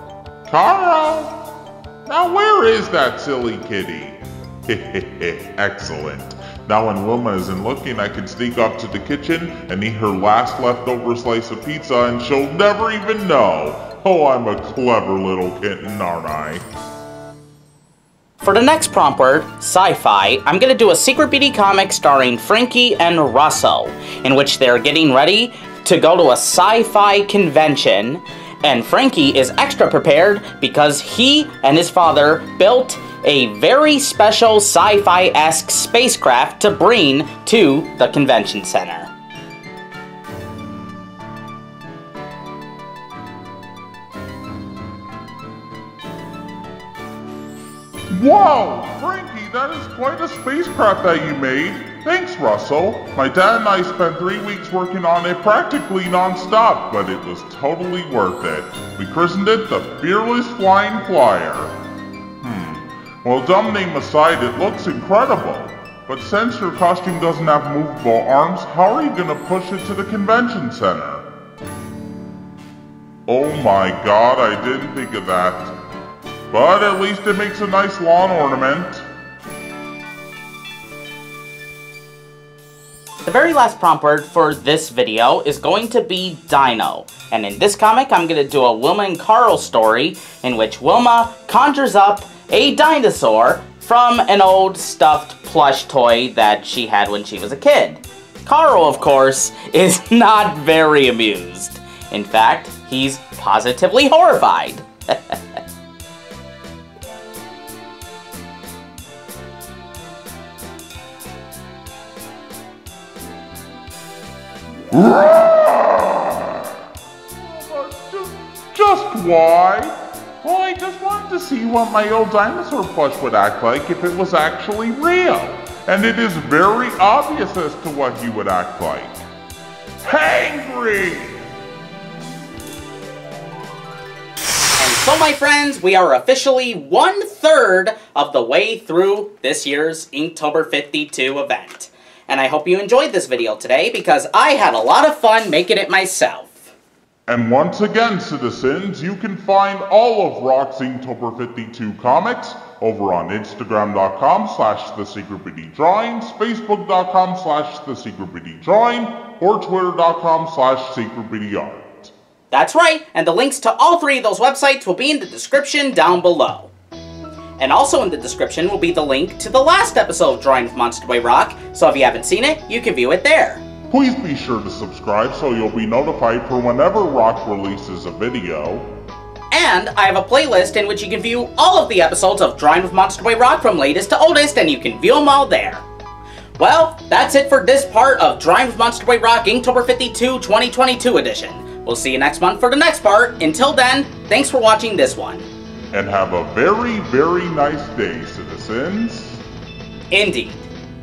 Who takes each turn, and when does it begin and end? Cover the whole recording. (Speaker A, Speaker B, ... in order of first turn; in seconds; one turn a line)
Speaker A: 0.5-1.4
Speaker A: 2.1-16.7
Speaker B: 18.4-39.1
Speaker A: 48.1-61.8
Speaker A: 62.4-71.2
Speaker A: 73.3-75.7
Speaker A: 76.5-79.1
Speaker B: 83.2-105.4
Speaker A: 114.9-116.6
Speaker A: 117.3-129.2
Speaker A: 130.0-131.4
Speaker B: 134.8-146.7
Speaker A: 147.3-162.1
Speaker B: 162.5-166.7
Speaker B: 167.6-173.6
Speaker A: 173.9-178.9
Speaker B: 179.5-185.9
Speaker B: 186.6-195.5
Speaker A: 195.9-199.4
Speaker B: 200.1-200.7